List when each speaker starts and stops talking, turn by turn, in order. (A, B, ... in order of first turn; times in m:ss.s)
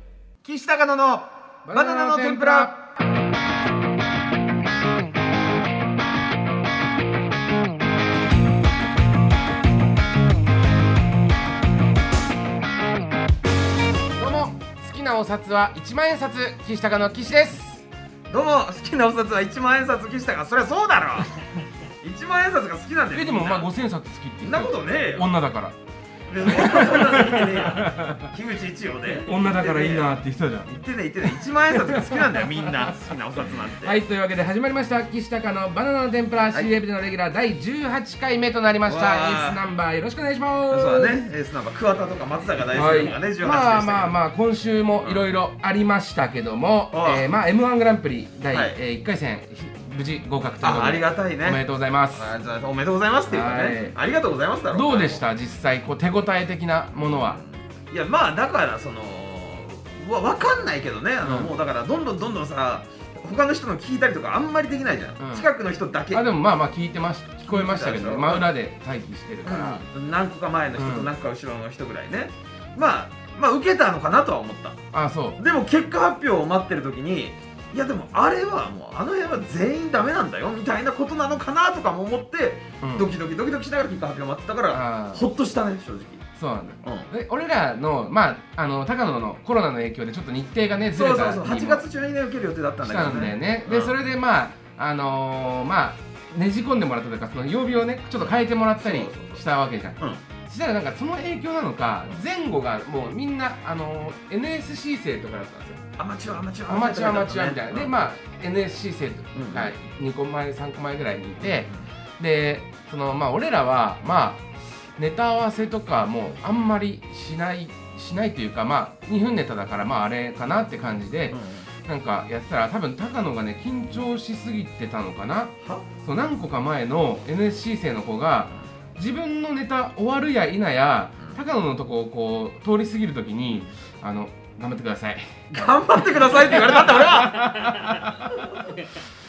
0:00.4-0:02.7 A
0:01.7-0:02.9 B
0:14.2-0:17.9 B
0:18.3-0:21.4 A
0:22.0-0:23.7 A
0:23.1-0:25.8 B
0:24.4-0:25.3 A
0:26.3-0:30.1 A
0:26.4-0:28.3 B
0:29.2-0:30.7 B
0:30.7-0:34.0 A
0:31.3-0:32.8 B
0:33.8-0:41.2 B
0:38.9-0:39.6 A
0:40.7-0:44.2 A
0:42.7-0:52.3 B
0:46.9-0:47.3 A
0:48.5-0:48.8 A
0:50.6-0:51.6 A
0:52.1-0:55.2 A
0:53.3-0:54.0 B
0:54.7-0:57.4 B
0:57.2-1:06.3 A
1:01.2-1:01.5 B
1:05.2-1:05.5 B
1:06.1-1:09.8 B
1:07.5-1:08.5 A
1:09.4-1:14.8 A
1:10.8-1:11.1 B
1:14.9-1:15.4 B
1:15.4-1:26.2 A
1:22.8-1:23.1 B
1:24.7-1:25.3 B
1:26.4-1:31.8 B
1:26.8-1:27.1 A
1:31.0-1:33.9 A
1:32.8-1:45.8 B
1:38.8-1:39.4 A
1:46.0-1:47.9 A
1:46.7-2:15.3 B
1:49.4-1:49.7 A
2:01.3-2:01.7 A
2:15.5-2:18.8 A
2:16.3-2:18.4 B